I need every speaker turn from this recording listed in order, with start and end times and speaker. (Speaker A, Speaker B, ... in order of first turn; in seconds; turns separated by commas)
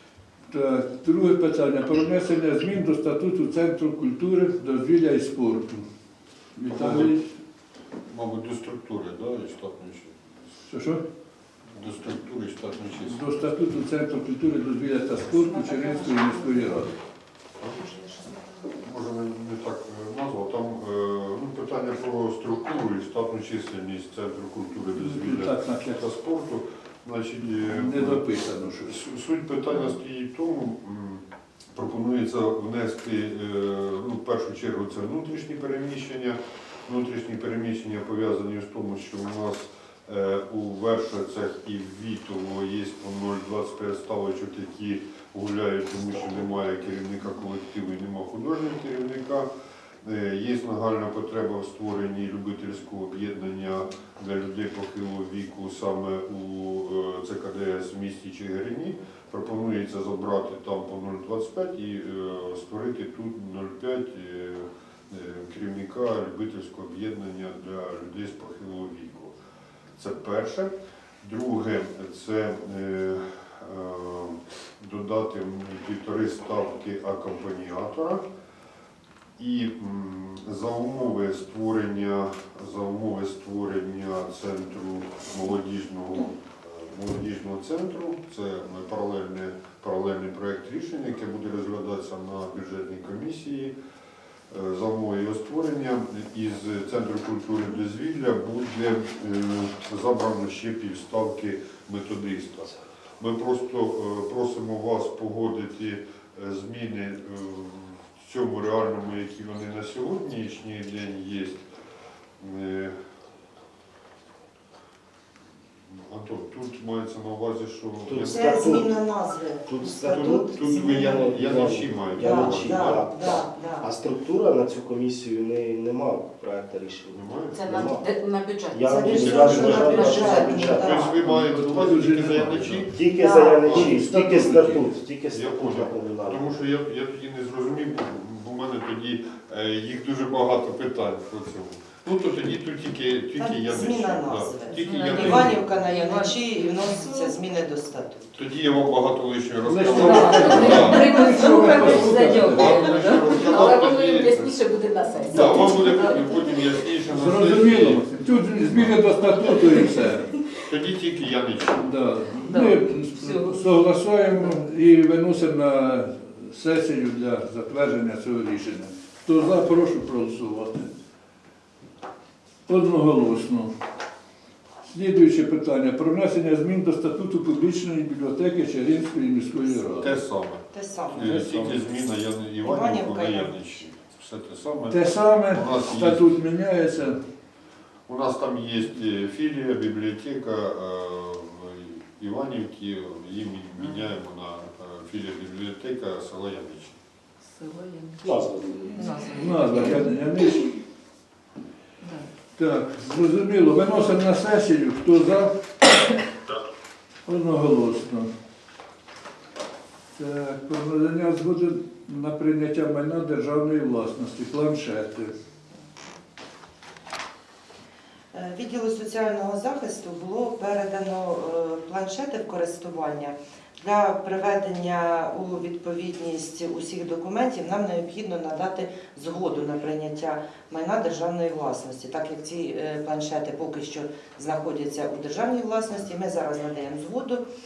Speaker A: 0.5-5.9, Speaker A: 6.6-7.3, Speaker B: 6.7-7.1, Speaker B: 8.1-10.5, Speaker A: 10.7-11.0, Speaker B: 11.7-13.2, Speaker A: 13.1-16.9, Speaker C: 17.7-18.8, Speaker B: 18.8-28.2, Speaker A: 25.0-26.0, Speaker A: 27.6-29.0, Speaker B: 28.8-49.5, Speaker B: 50.0-69.3, Speaker B: 70.0-70.7, Speaker B: 71.2-78.2, Speaker B: 79.4-93.7, Speaker B: 94.5-111.6, Speaker B: 112.4-112.9, Speaker B: 115.9-118.8, Speaker D: 118.1-118.9, Speaker E: 118.2-121.3, Speaker D: 119.7-128.1, Speaker B: 120.2-123.0, Speaker E: 122.2-123.9, Speaker B: 127.1-127.8, Speaker C: 127.5-129.0, Speaker D: 128.7-131.1, Speaker E: 128.8-131.2, Speaker B: 129.1-130.1, Speaker C: 129.8-130.3, Speaker B: 130.7-133.0, Speaker A: 131.2-132.8, Speaker D: 132.9-136.5, Speaker E: 133.1-133.6, Speaker B: 133.6-145.7, Speaker E: 143.4-148.3, Speaker C: 144.8-147.3, Speaker B: 148.3-154.6, Speaker A: 149.7-153.0, Speaker C: 149.9-156.4, Speaker B: 155.2-158.1, Speaker A: 157.1-160.4, Speaker B: 158.7-159.0, Speaker B: 160.6-161.8, Speaker A: 161.8-170.9, Speaker C: 162.4-163.7, Speaker A: 172.7-173.7, Speaker A: 174.8-180.2, Speaker B: 180.0-186.3, Speaker E: 180.7-181.7, Speaker A: 181.2-181.8, Speaker E: 182.6-183.8, Speaker A: 184.9-187.2, Speaker B: 188.1-197.0, Speaker C: 197.5-198.3, Speaker D: 198.2-199.7, Speaker C: 198.9-200.1, Speaker A: 199.3-200.7, Speaker C: 202.0-202.3, Speaker A: 202.6-205.5, Speaker A: 207.3-208.3, Speaker A: 210.1-215.3, Speaker E: 218.3-237.4